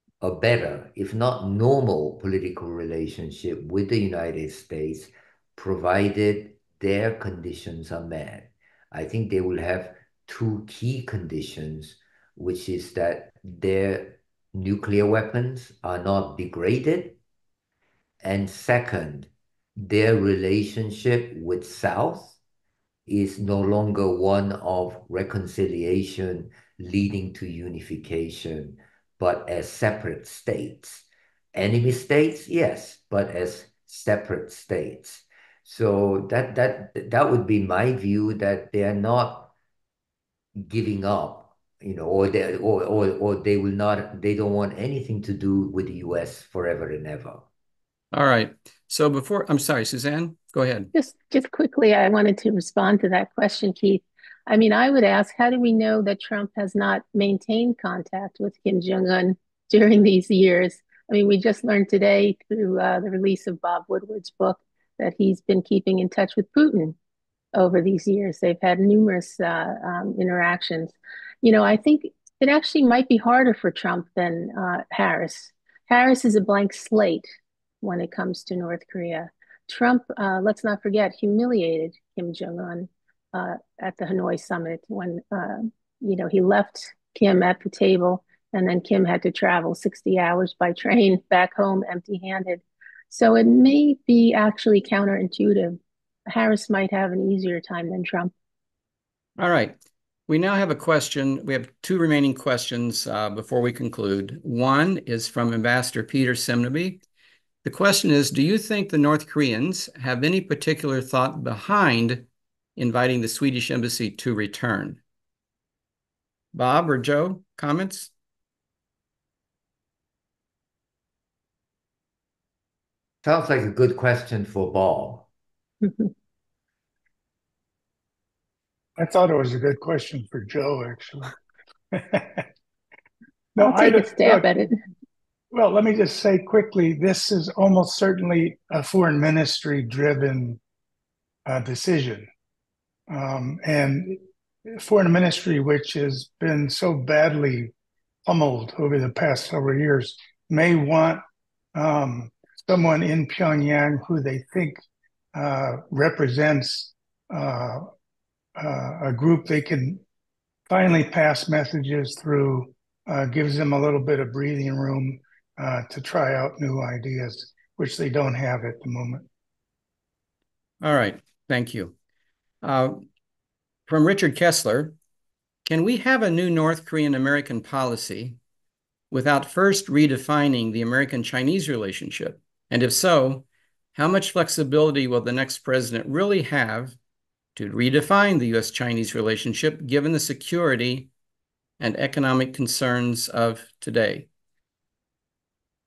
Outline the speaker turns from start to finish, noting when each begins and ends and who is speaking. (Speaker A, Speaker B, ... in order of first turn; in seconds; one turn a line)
Speaker A: 0.2-17.2
Speaker A: 18.2-22.4
Speaker A: 23.1-39.5
Speaker A: 40.5-47.4
Speaker B: 48.1-50.9
Speaker C: 50.9-67.0
Speaker C: 67.5-77.3
Speaker C: 77.8-98.3
Speaker B: 99.4-99.8
Speaker B: 100.3-107.0
Speaker B: 107.6-115.0
Speaker B: 116.5-118.1
Speaker A: 123.2-125.3
Speaker D: 129.0-131.3
Speaker D: 131.9-132.4
Speaker D: 133.5-134.5
Speaker C: 133.6-134.8
Speaker D: 135.5-140.6
Speaker D: 141.5-142.3
Speaker D: 143.1-147.7
Speaker D: 148.2-151.2
Speaker D: 151.7-154.8
Speaker D: 155.3-157.8
Speaker D: 158.6-160.0
Speaker D: 160.7-169.2
Speaker B: 170.8-171.9
Speaker B: 172.6-173.1
Speaker B: 173.9-174.9
Speaker B: 175.7-178.4
Speaker B: 179.1-186.9
Speaker B: 187.5-191.1
Speaker B: 191.8-194.3